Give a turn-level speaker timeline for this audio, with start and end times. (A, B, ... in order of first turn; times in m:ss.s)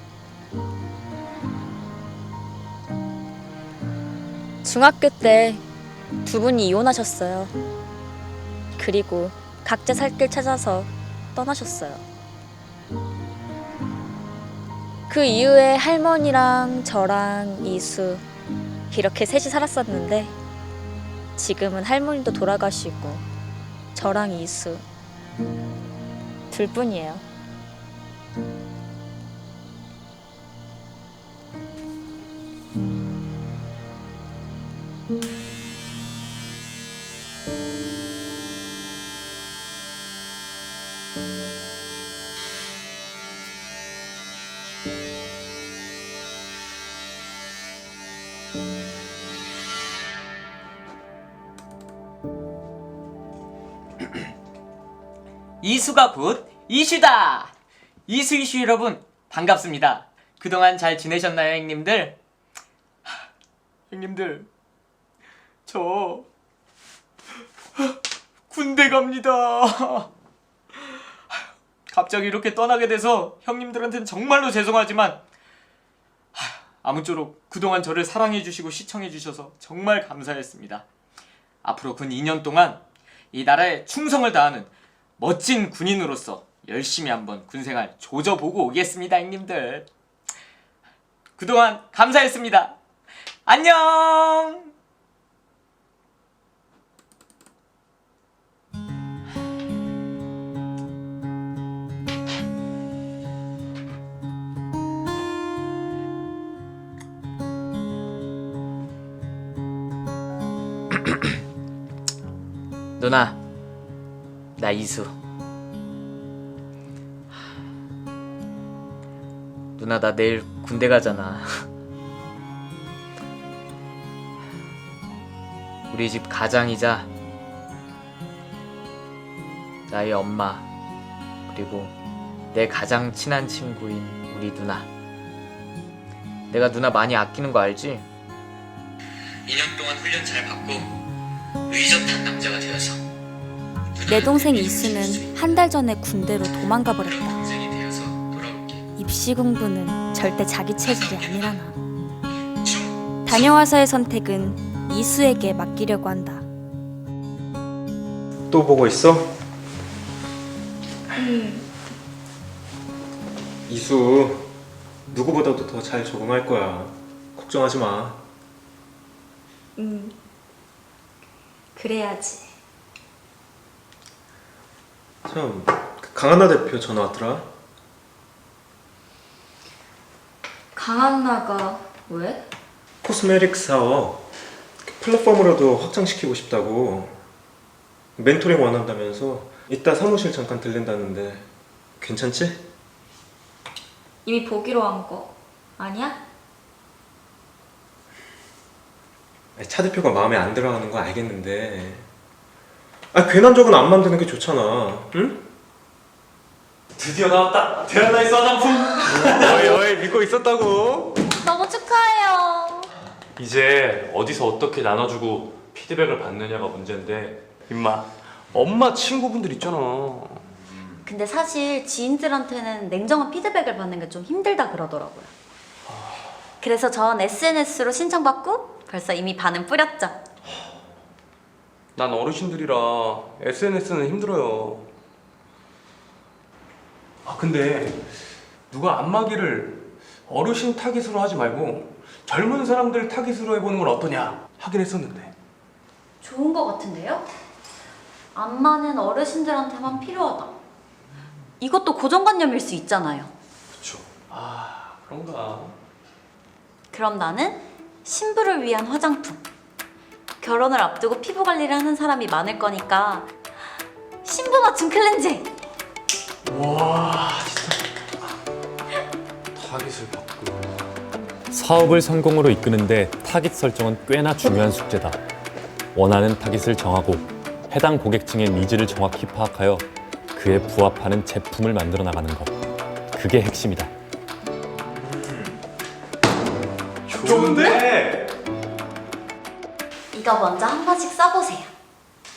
0:04.6-0:05.6 A
0:06.2-0:07.5 A
0:08.8-0:12.0 A
0:15.1-0:18.2 A
0:18.9-0:20.3 A
0:21.4-0:23.2 A
0:23.9-0:24.8 A
0:26.5-0:27.2 A
0:55.6-0:57.5 B
0:58.1-1:02.1 B
1:03.9-1:04.5 B
1:05.7-1:06.2 B
1:08.5-1:10.1 B
1:11.3-1:15.2 B
1:16.3-1:20.8 B
1:21.6-1:22.8 B
1:23.3-1:29.9 B
1:31.4-1:32.7 B
1:33.4-1:34.7 B
1:53.0-1:53.4 B
1:54.6-1:55.1 B
1:59.8-2:01.6 B
2:05.9-2:07.1 B
2:09.9-2:10.6 B
2:11.5-2:11.9 B
2:12.5-2:14.8 B
2:16.5-2:18.0 B
2:19.6-2:20.8 B
2:21.7-2:22.4 B
2:24.1-2:27.6 A
2:29.0-2:31.8 A
2:33.2-2:36.4 A
2:38.5-2:39.3 C
2:41.1-2:41.6 A
2:43.7-2:44.5 C
2:45.1-2:48.2 C
2:49.8-2:50.1 A
2:51.8-2:52.5 A
2:55.2-2:57.5 C
3:00.7-3:02.4 A
3:03.0-3:04.2 C
3:04.8-3:07.2 C
3:08.2-3:11.4 C
3:12.0-3:12.6 C
3:14.2-3:16.2 A
3:19.6-3:22.0 C
3:23.1-3:25.4 C
3:27.0-3:29.8 D
3:29.1-3:31.2 E
3:31.4-3:32.9 F
3:33.4-3:37.4 D
3:37.7-3:40.4 E
3:41.0-3:45.3 F
3:46.6-3:50.2 F
3:52.0-3:54.9 E
3:57.2-3:58.0 E
3:58.7-4:05.3 E
4:06.2-4:07.2 F
4:08.3-4:10.6 F
4:11.6-4:13.3 F
4:13.7-4:14.0 D
4:14.3-4:15.8 E
4:16.9-4:19.4 F
4:20.4-4:23.3 F
4:24.2-4:25.5 F
4:26.4-4:27.8 E
4:29.6-4:30.6 E
4:29.8-4:30.2 D
4:31.5-4:35.2 D
4:35.9-4:42.5 D
4:43.1-4:43.9 D
4:47.1-4:48.2 E
4:47.4-4:47.8 F
4:50.1-4:51.7 F